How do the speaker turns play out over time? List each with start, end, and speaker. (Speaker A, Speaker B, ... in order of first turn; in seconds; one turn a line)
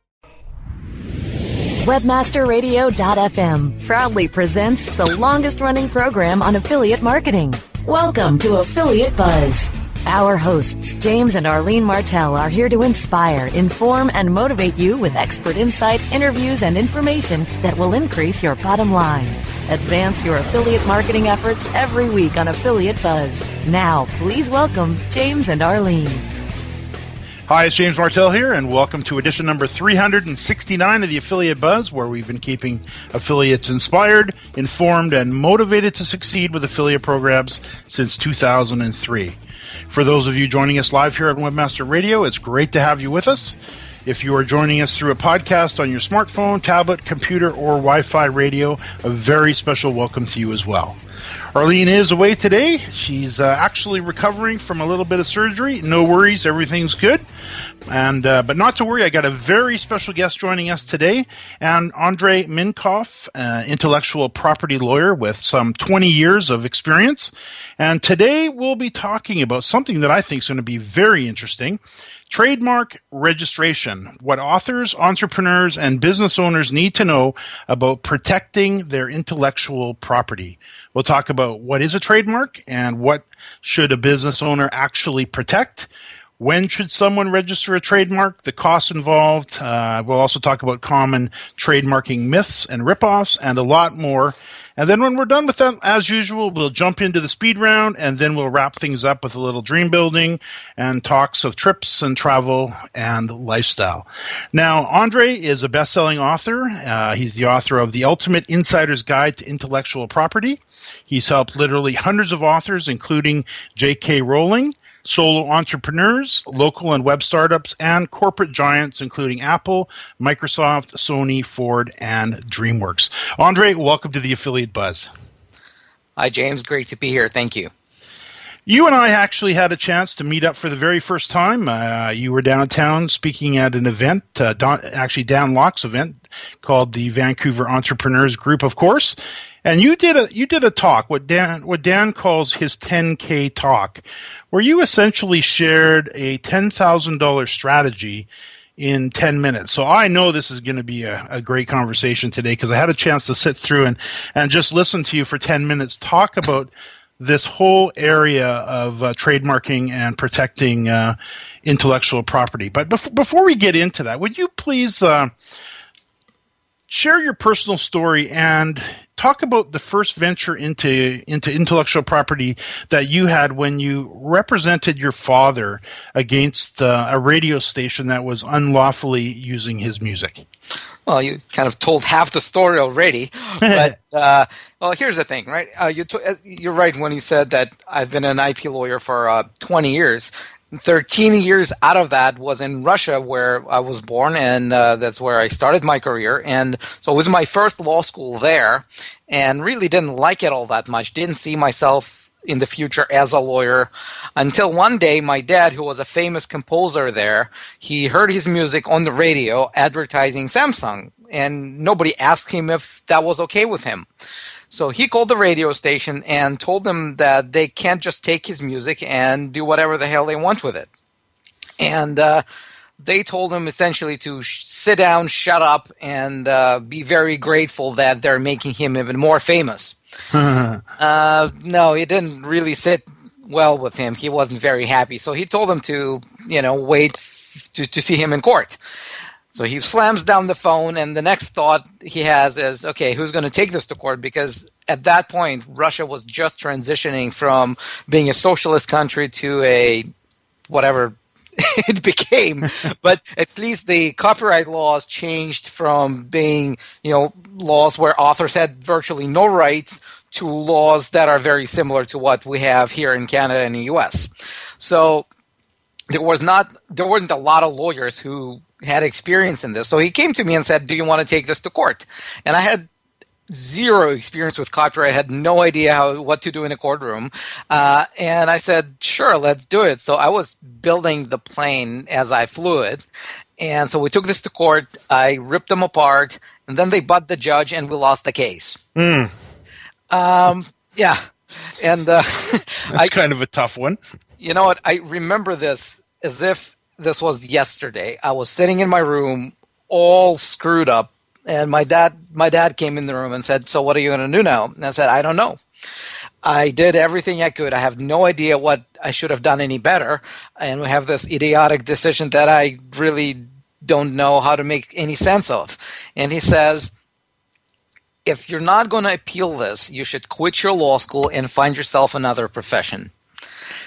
Speaker A: 1.8-26.3
Speaker B: 27.5-39.4
Speaker B: 39.9-51.0
Speaker B: 51.5-57.2
Speaker B: 57.9-125.1
Speaker C: 126.2-127.7
Speaker B: 128.7-165.3
Speaker B: 166.9-180.4
Speaker C: 181.1-214.1
Speaker B: 183.6-183.9
Speaker C: 214.7-220.9
Speaker C: 221.8-222.4
Speaker C: 223.0-230.0
Speaker B: 230.3-230.8
Speaker C: 231.0-238.8
Speaker C: 239.5-250.1
Speaker C: 250.7-265.2
Speaker C: 266.1-272.9
Speaker C: 273.5-283.0
Speaker C: 283.6-288.8
Speaker B: 288.9-289.3
Speaker C: 290.1-293.1
Speaker B: 292.9-294.0
Speaker C: 294.4-305.6
Speaker C: 306.4-316.9
Speaker C: 318.2-323.1